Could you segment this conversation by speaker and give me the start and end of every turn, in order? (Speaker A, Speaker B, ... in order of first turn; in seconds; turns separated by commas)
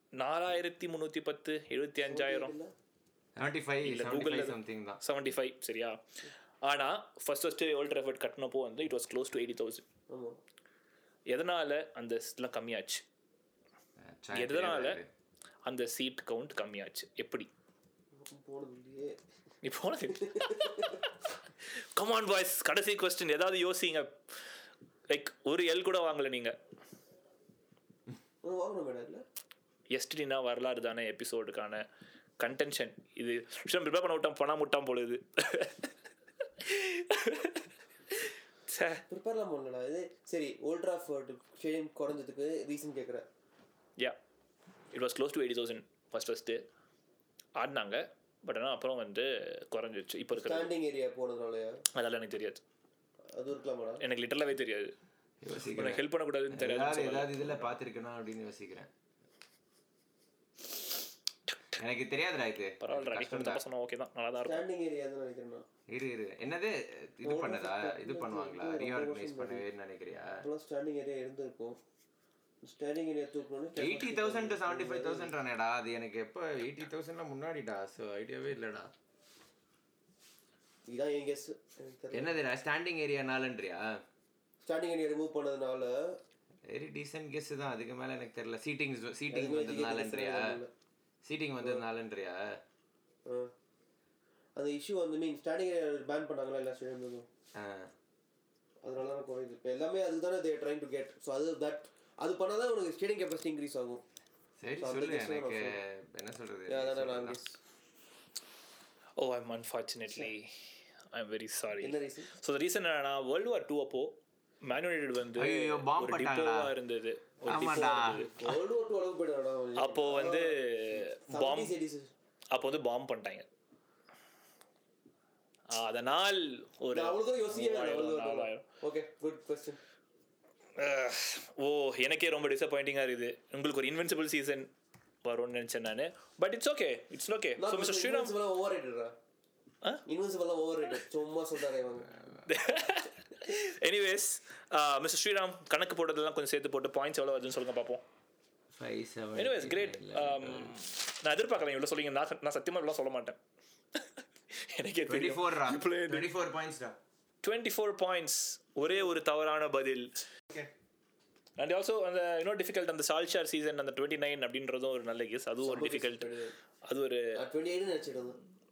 Speaker A: 0.1-2.5, Speaker B: 2.1-2.7, Speaker C: 3.4-5.0, Speaker A: 3.8-6.0, Speaker A: 6.6-9.8, Speaker B: 10.1-10.4, Speaker A: 11.3-13.0, Speaker C: 14.0-15.1, Speaker A: 14.3-15.0, Speaker A: 15.7-17.5, Speaker B: 18.2-19.2, Speaker A: 19.6-21.0, Speaker B: 20.1-21.0, Speaker A: 21.9-24.2, Speaker A: 25.1-26.6, Speaker B: 28.4-29.2, Speaker A: 29.9-31.8, Speaker A: 32.4-35.9, Speaker A: 36.6-39.0, Speaker B: 39.1-43.3, Speaker A: 44.9-46.6, Speaker A: 47.6-50.7, Speaker B: 50.3-51.8, Speaker A: 51.9-52.6, Speaker B: 53.3-54.0, Speaker A: 54.0-54.9, Speaker C: 55.4-58.9, Speaker A: 55.7-57.8, Speaker C: 61.8-63.6, Speaker A: 62.8-64.6, Speaker B: 64.4-65.6, Speaker C: 65.9-70.4, Speaker B: 67.2-69.6, Speaker B: 70.4-71.8, Speaker B: 72.6-75.3, Speaker C: 73.8-78.9, Speaker B: 80.9-82.3, Speaker C: 82.1-84.0, Speaker B: 84.6-86.2, Speaker C: 86.7-90.6, Speaker B: 89.3-90.7, Speaker C: 91.2-92.6, Speaker B: 93.2-93.5, Speaker B: 94.5-97.3, Speaker C: 97.5-97.9, Speaker B: 98.8-104.0, Speaker C: 104.6-107.4, Speaker B: 104.8-105.8, Speaker B: 106.7-107.6, Speaker A: 109.2-110.5, Speaker A: 111.1-118.3, Speaker B: 111.8-112.3, Speaker C: 115.3-116.7, Speaker C: 117.5-118.6, Speaker B: 117.5-122.1, Speaker A: 119.8-121.7, Speaker A: 122.5-123.5, Speaker A: 125.7-128.6, Speaker B: 126.9-129.8, Speaker A: 130.8-134.7, Speaker A: 135.2-138.3, Speaker B: 137.6-139.1, Speaker B: 140.1-142.1, Speaker A: 142.4-148.0, Speaker C: 148.7-150.8, Speaker A: 149.3-153.4, Speaker A: 154.6-156.3, Speaker C: 155.1-157.0, Speaker A: 157.4-160.1, Speaker A: 161.6-166.3, Speaker B: 165.6-166.5, Speaker A: 166.8-167.4, Speaker B: 167.3-168.4